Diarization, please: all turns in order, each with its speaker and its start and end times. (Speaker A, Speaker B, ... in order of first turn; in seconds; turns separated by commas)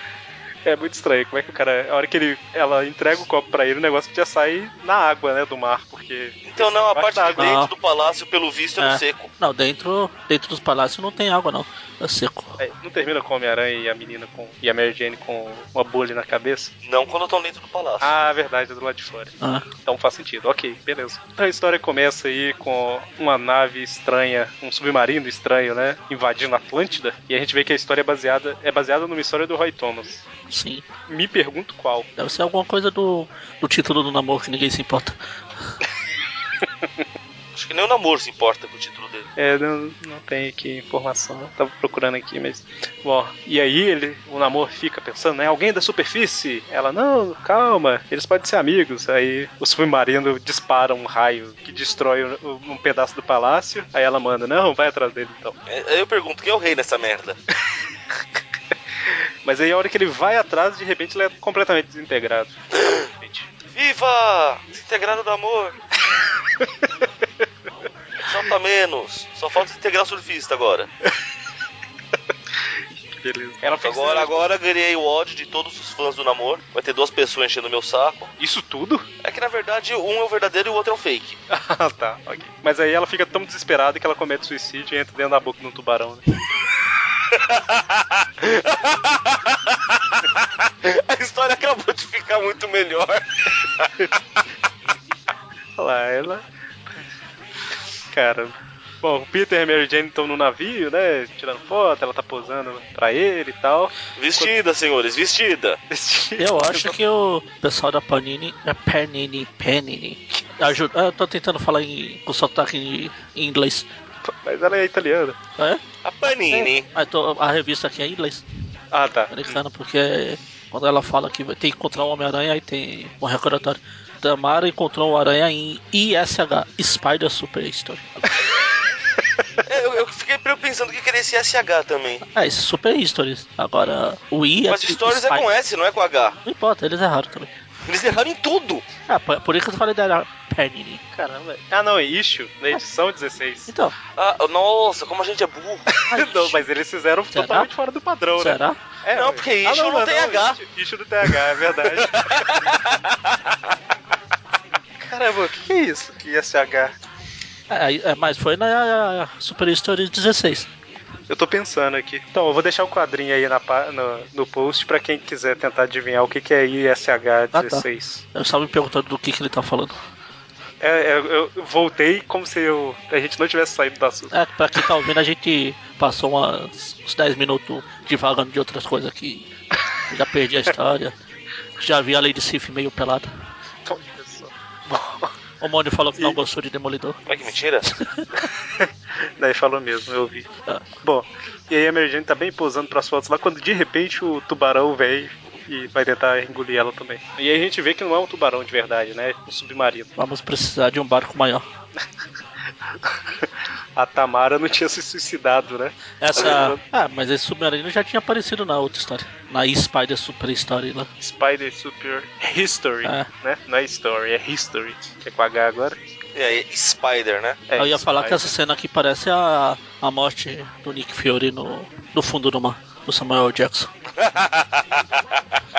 Speaker A: 0.7-7.6, Speaker B: 6.5-9.3, Speaker C: 7.4-7.7, Speaker C: 8.8-12.6, Speaker A: 12.6-16.7, Speaker B: 16.8-18.2, Speaker A: 18.0-30.2, Speaker C: 19.4-19.7, Speaker C: 30.5-30.9, Speaker A: 31.1-32.1, Speaker C: 32.2-35.2, Speaker B: 37.5-39.3, Speaker A: 39.4-55.6, Speaker B: 55.7-57.4, Speaker A: 59.5-63.5, Speaker B: 63.7-65.8, Speaker B: 68.2-70.9, Speaker A: 72.9-74.5, Speaker B: 73.8-78.3, Speaker A: 78.4-79.1, Speaker B: 79.2-81.4, Speaker A: 81.5-86.2, Speaker B: 87.3-94.1, Speaker A: 95.8-96.4, Speaker A: 98.1-104.5, Speaker B: 104.2-105.8, Speaker A: 105.9-107.0, Speaker C: 106.4-113.9, Speaker A: 114.2-115.4, Speaker B: 116.0-116.9, Speaker C: 116.5-118.4, Speaker A: 118.9-119.6, Speaker C: 119.3-128.3, Speaker B: 129.7-132.2, Speaker C: 132.2-135.5, Speaker B: 134.7-136.4, Speaker C: 136.4-137.5, Speaker B: 137.8-138.9, Speaker C: 139.1-141.0, Speaker A: 141.1-143.7, Speaker C: 143.7-143.9, Speaker B: 144.2-145.9, Speaker A: 145.9-152.8, Speaker C: 146.1-146.6, Speaker C: 147.3-147.7, Speaker C: 148.4-148.8, Speaker B: 149.1-150.6, Speaker B: 151.9-153.5, Speaker A: 155.0-156.9, Speaker C: 157.7-160.7, Speaker A: 161.3-168.2, Speaker C: 167.5-170.0, Speaker A: 170.8-174.3, Speaker C: 174.3-179.5, Speaker C: 180.1-181.1, Speaker C: 181.8-183.3, Speaker A: 183.9-185.3, Speaker C: 185.6-187.2, Speaker B: 187.3-187.9, Speaker C: 187.9-188.3, Speaker A: 188.8-190.5, Speaker A: 191.0-200.1, Speaker C: 200.2-201.7, Speaker A: 203.1-206.8, Speaker C: 206.2-211.1, Speaker A: 211.2-216.0, Speaker C: 213.0-213.3, Speaker B: 216.3-217.6, Speaker A: 217.7-218.5, Speaker C: 217.8-223.9, Speaker B: 224.2-225.4